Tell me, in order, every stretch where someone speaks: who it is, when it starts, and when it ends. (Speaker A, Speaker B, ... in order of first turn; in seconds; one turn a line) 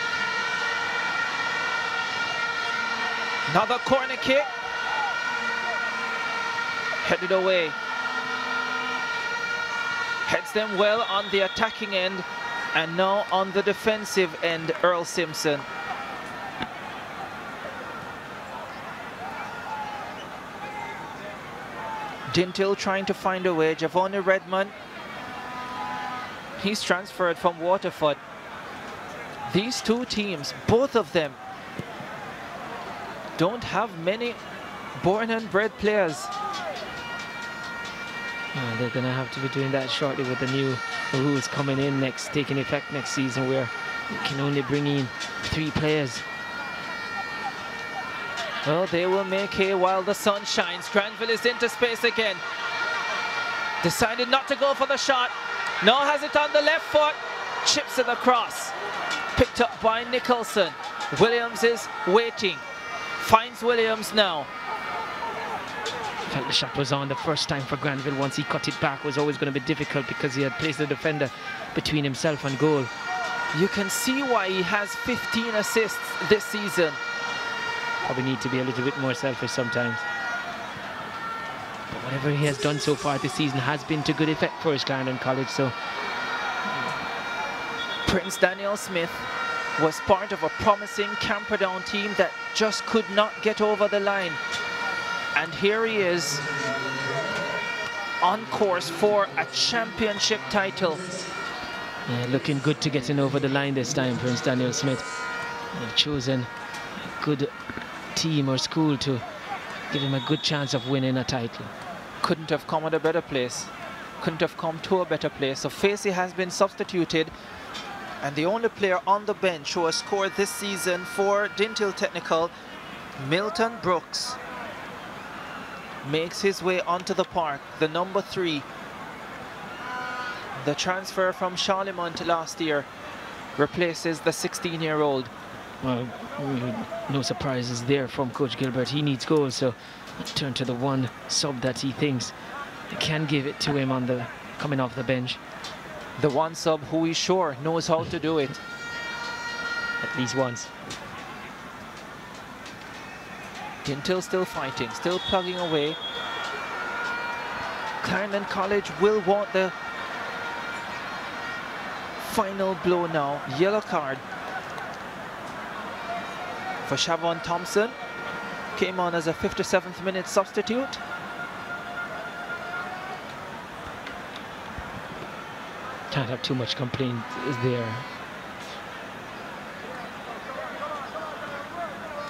Speaker A: 3.5-4.5
Speaker A: 7.0-7.8
Speaker A: 10.2-15.7
Speaker A: 22.3-24.7
Speaker A: 26.6-28.2
Speaker A: 29.5-31.4
Speaker A: 33.4-34.4
Speaker A: 35.0-36.3
Speaker B: 38.5-46.2
Speaker A: 48.6-52.4
Speaker A: 53.8-58.7
Speaker A: 59.3-62.6
Speaker A: 63.2-64.5
Speaker B: 66.2-72.9
Speaker A: 73.5-77.0
Speaker B: 78.0-80.0
Speaker B: 81.9-85.7
Speaker A: 88.0-94.4
Speaker A: 95.3-96.4
Speaker A: 98.2-101.0
Speaker B: 102.1-105.0
Speaker B: 105.7-107.5
Speaker B: 108.1-109.2
Speaker B: 109.9-111.7
Speaker A: 112.2-117.3
Speaker A: 118.2-122.5
Speaker A: 123.2-124.4
Speaker A: 126.0-128.7
Speaker A: 130.6-132.9
Speaker A: 133.6-135.3
Speaker B: 135.8-142.3
Speaker B: 142.9-145.4
Speaker A: 146.2-148.6
Speaker B: 150.0-150.7
Speaker A: 153.8-156.0
Speaker A: 158.0-159.7
Speaker A: 162.2-164.2
Speaker A: 166.8-167.9
Speaker A: 168.7-171.0
Speaker B: 176.1-178.1